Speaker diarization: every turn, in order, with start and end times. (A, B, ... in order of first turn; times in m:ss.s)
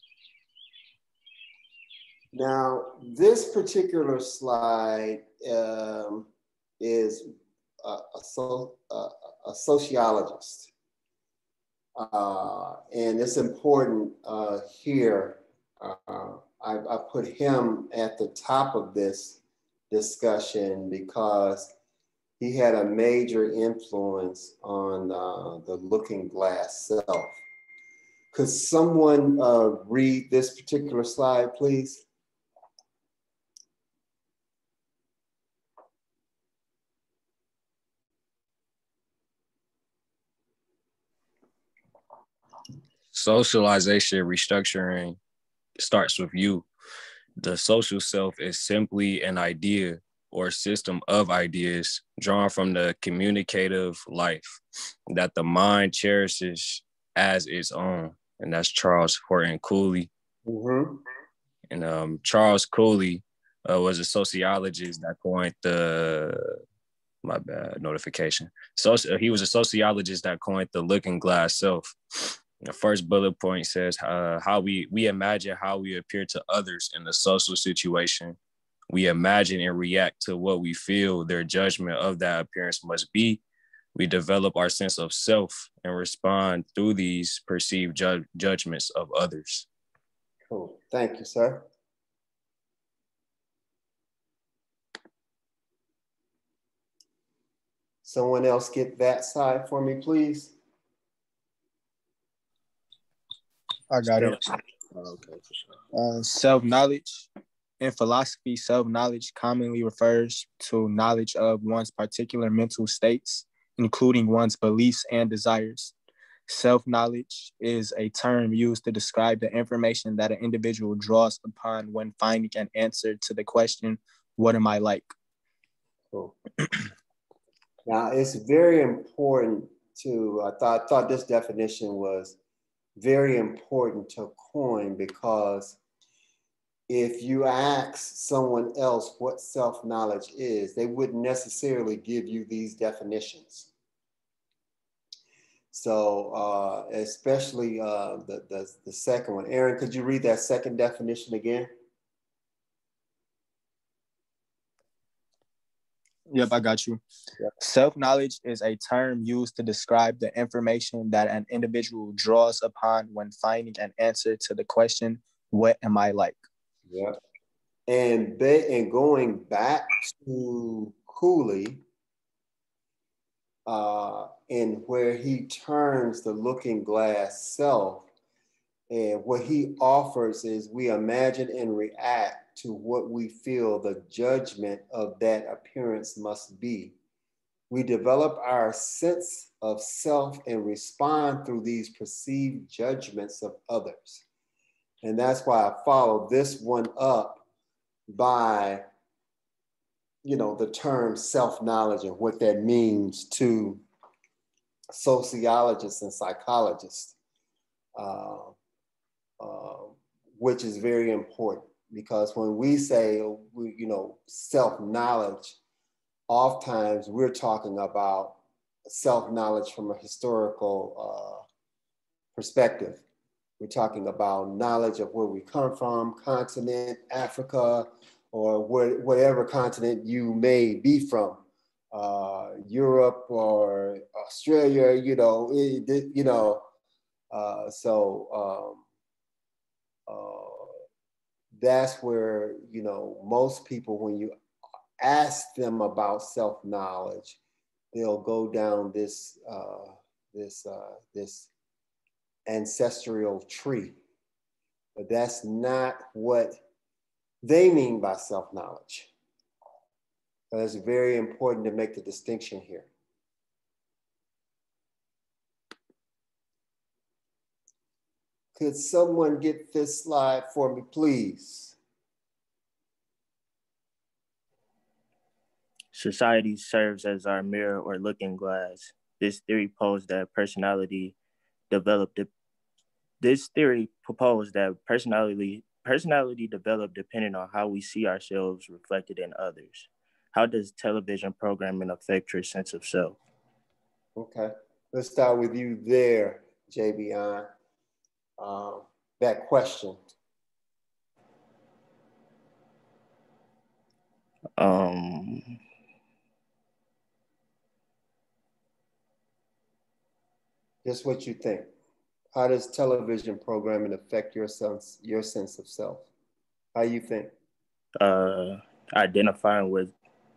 0:02.3-0:06.3 A
0:06.8-0:10.7 A
0:12.0-0:19.4 A
0:19.9-0:21.7 A
0:22.4-0:27.4 A
0:28.3-0:32.0 A
0:43.1-0:45.2 B
0:45.8-0:46.7 B
0:47.4-0:54.6 B
0:55.1-1:00.1 B
1:00.4-1:01.0 A
1:01.7-1:06.6 B
1:07.2-1:12.0 B
1:12.6-1:18.4 B
1:18.9-1:23.4 B
1:23.9-1:29.6 B
1:30.5-1:31.6 A
1:38.0-1:40.5 A
1:43.9-1:44.4 C
1:45.9-1:47.3 C
1:47.8-1:55.9 C
1:56.5-2:05.1 C
2:07.9-2:12.4 A
2:13.0-2:15.8 A
2:16.9-2:23.7 A
2:25.7-2:31.7 A
2:36.3-2:37.0 C
2:37.6-2:46.4 C
2:46.9-2:47.2 A
2:47.9-2:51.8 A
2:53.6-2:58.1 A
2:58.9-3:06.9 A
3:07.7-3:14.2 A
3:15.0-3:17.4 A
3:18.1-3:18.8 A
3:20.2-3:23.8 A
3:24.9-3:27.1 A
3:28.0-3:28.5 A
3:29.4-3:35.6 A
3:36.3-3:41.4 A
3:42.4-3:43.0 A
3:43.6-3:56.6 A
3:57.3-3:58.8 A
4:00.1-4:00.7 A
4:01.5-4:04.3 A
4:05.0-4:07.4 A
4:07.9-4:11.5 A
4:12.5-4:14.0 A
4:15.0-4:16.6 A
4:17.4-4:19.1 A
4:20.5-4:22.9 A
4:28.5-4:31.8 A
4:35.9-4:41.1 D
4:41.7-4:42.3 D
4:43.2-4:53.2 D
4:54.2-4:57.5 A
4:58.4-5:00.0 A
5:04.6-5:05.6 D
5:10.8-5:11.7 A
5:12.3-5:16.1 A
5:16.7-5:17.3 A
5:18.0-5:19.9 D